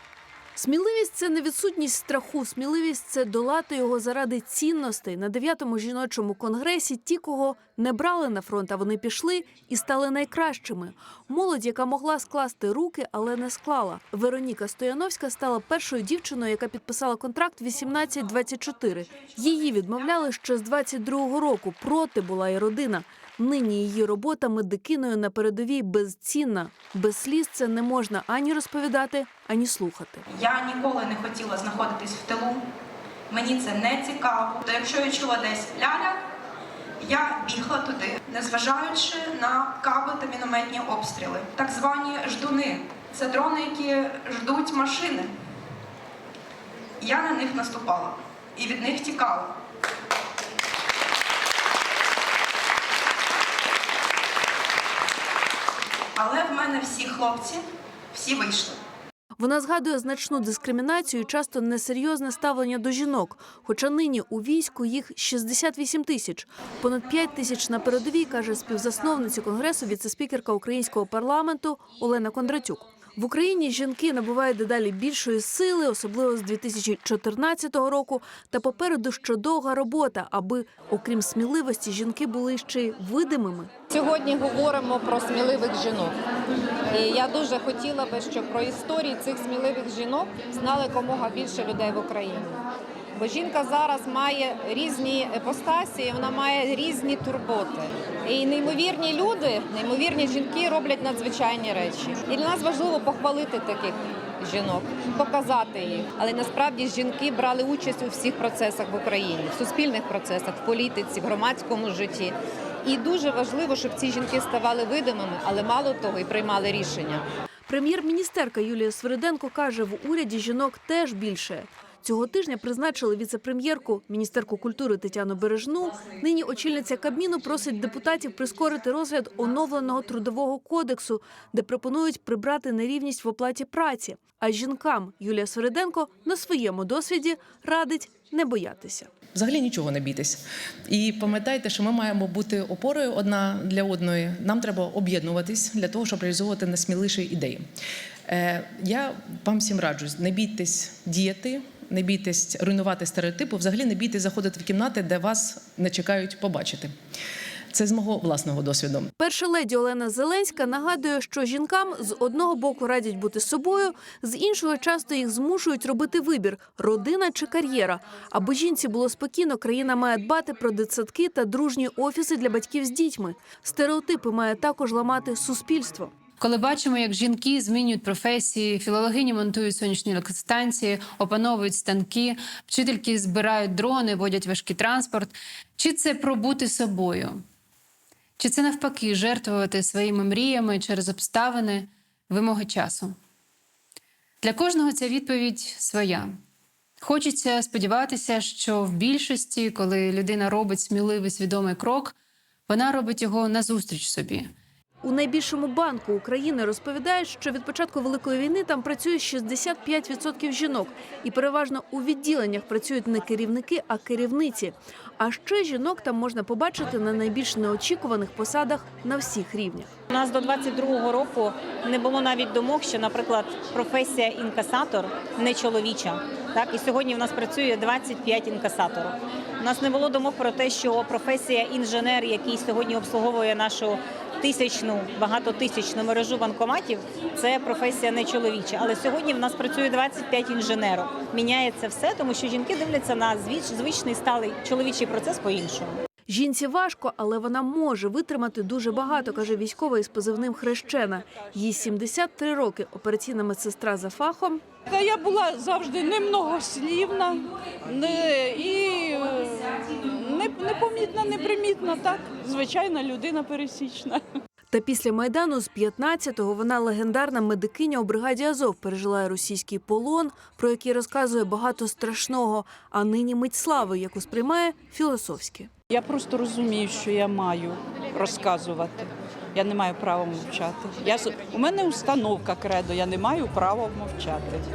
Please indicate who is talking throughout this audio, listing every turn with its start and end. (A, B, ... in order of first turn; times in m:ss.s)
0:00.6-0:30.3 A
0:30.3-0:32.6 B
0:33.3-0:36.2 B
0:37.0-0:45.3 B
0:47.0-0:49.6 B
0:56.2-0:58.8 B
0:59.4-1:23.7 A
1:23.9-1:26.2 C
1:26.9-1:32.6 C
1:33.2-1:57.3 C
1:57.7-2:19.1 A
2:19.4-2:27.6 D
2:28.3-2:36.9 D
2:37.7-2:39.1 D
2:39.2-2:56.1 A
2:56.4-3:07.4 E
3:08.4-3:13.2 E
3:14.4-3:16.3 E
3:17.0-3:22.2 E
3:22.7-3:24.5 E
3:25.0-3:39.9 A
3:40.1-4:06.0 F
4:06.3-4:14.6 A
4:14.9-4:24.2 G
4:24.7-4:35.7 A
4:35.9-4:44.7 G